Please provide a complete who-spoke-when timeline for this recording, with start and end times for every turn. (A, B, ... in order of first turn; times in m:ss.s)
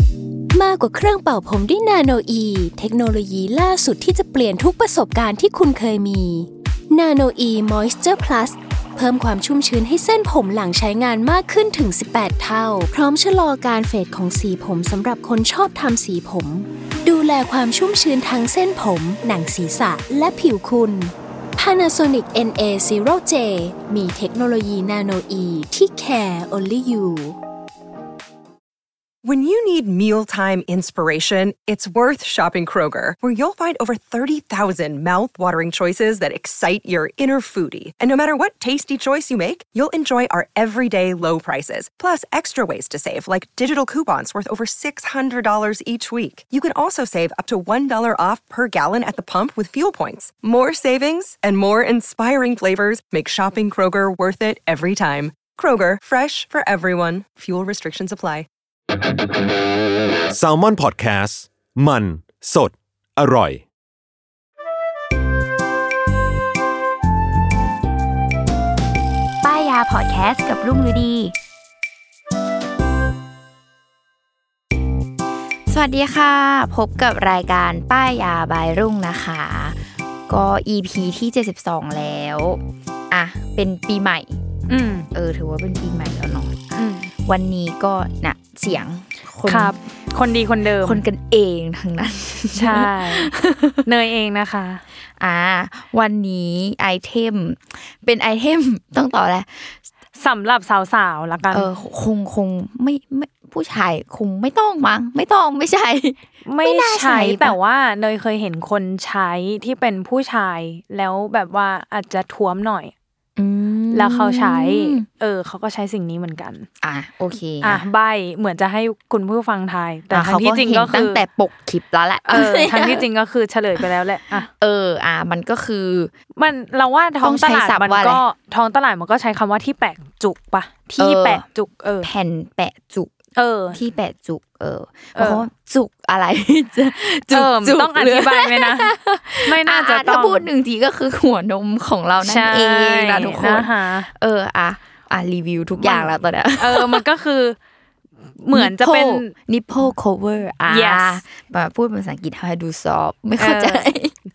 0:00.5-0:27.4 A
0:29.2-0:58.5 B
1:00.3-1:03.6 C
1:09.4-1:11.3 D
1:15.7-1:24.4 D
1:24.7-1:25.1 E
1:25.1-1:29.7 D
1:26.8-1:27.1 E
1:29.5-1:31.0 E
1:30.8-1:33.8 D
1:32.5-1:33.3 E
1:33.8-1:34.8 E
1:35.2-1:39.8 D
1:40.2-1:41.7 E
1:41.5-1:47.6 D
1:46.4-1:52.9 E
1:53.4-1:55.0 D
1:53.9-1:56.7 E
1:56.8-1:57.8 D
1:57.6-2:01.2 E
2:00.1-2:03.0 D
2:02.3-2:04.5 E
2:04.5-2:06.1 D
2:06.4-2:12.1 E
2:07.2-2:08.2 D
2:11.0-2:11.4 D
2:12.0-2:13.1 D
2:13.4-2:13.8 E
2:13.7-2:27.0 D
2:15.1-2:15.4 E
2:17.3-2:20.4 E
2:22.2-2:24.1 E
2:25.8-2:27.6 E
2:28.4-2:29.3 E
2:28.5-2:34.1 D
2:30.7-2:31.2 E
2:33.4-2:33.9 E